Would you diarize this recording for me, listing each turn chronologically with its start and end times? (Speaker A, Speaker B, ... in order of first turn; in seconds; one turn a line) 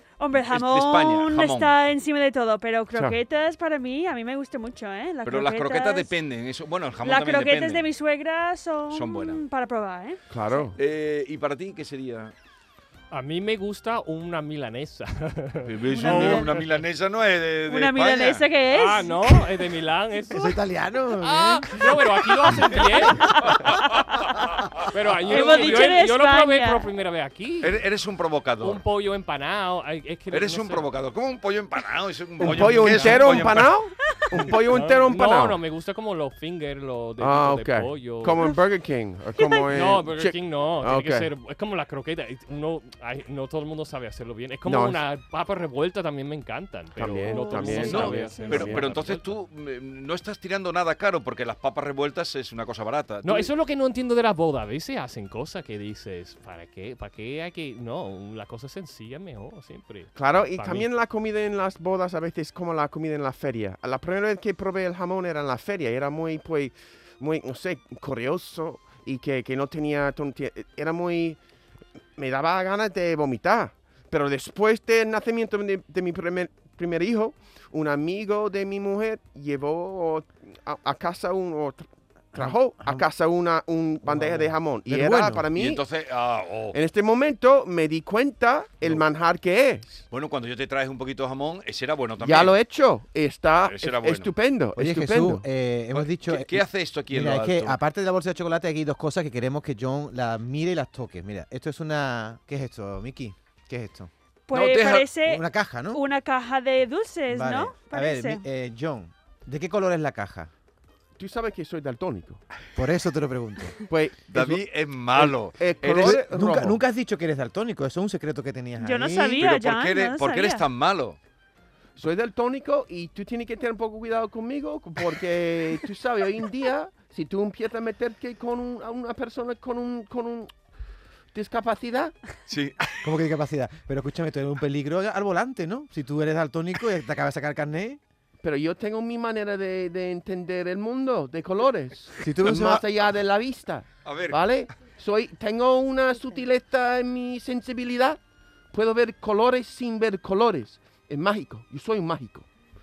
Speaker A: 0.2-6.1
Speaker B: 0.3-1.7
Speaker B: 5.2-7.9
Speaker A: 7.0-10.2
Speaker B: 8.9-9.4
Speaker C: 10.3-10.8
Speaker B: 10.8-12.3
Speaker D: 13.1-16.6
Speaker B: 15.7-18.4
Speaker A: 15.9-16.6
Speaker A: 17.7-19.4
Speaker D: 18.7-20.5
Speaker E: 20.3-22.0
Speaker D: 21.2-23.5
Speaker D: 24.9-27.8
Speaker A: 25.3-26.8
Speaker B: 27.6-28.8
Speaker D: 28.6-30.9
Speaker B: 30.3-33.7
Speaker C: 32.4-35.6
Speaker D: 32.4-33.4
Speaker D: 34.5-38.4
Speaker C: 37.2-41.3
Speaker A: 39.4-39.7
Speaker D: 39.7-49.4
Speaker C: 44.6-45.0
Speaker C: 47.0-48.8
Speaker A: 47.2-48.7
Speaker B: 47.8-53.5
Speaker D: 53.2-60.9
Speaker C: 60.1-71.4
Speaker C: 72.2-85.8
Speaker E: 82.3-83.0
Speaker E: 84.1-85.5
Speaker B: 85.5-86.8
Speaker C: 86.7-90.0
Speaker B: 90.1-92.5
Speaker C: 92.2-95.5
Speaker B: 93.7-94.3
Speaker E: 94.8-104.1
Speaker B: 95.9-97.8
Speaker A: 104.5-108.4
Speaker B: 104.5-105.1
Speaker E: 105.2-106.0
Speaker E: 107.3-110.5
Speaker C: 111.2-112.4
Speaker E: 112.7-113.8
Speaker C: 113.9-116.8
Speaker B: 114.3-116.2
Speaker E: 115.8-119.4
Speaker A: 118.8-120.6
Speaker B: 119.4-121.2
Speaker C: 122.0-130.5
Speaker C: 131.3-132.1
Speaker B: 132.5-132.8
Speaker E: 133.0-138.0
Speaker C: 138.4-148.2
Speaker E: 142.2-142.8
Speaker B: 144.0-144.4
Speaker C: 148.7-152.5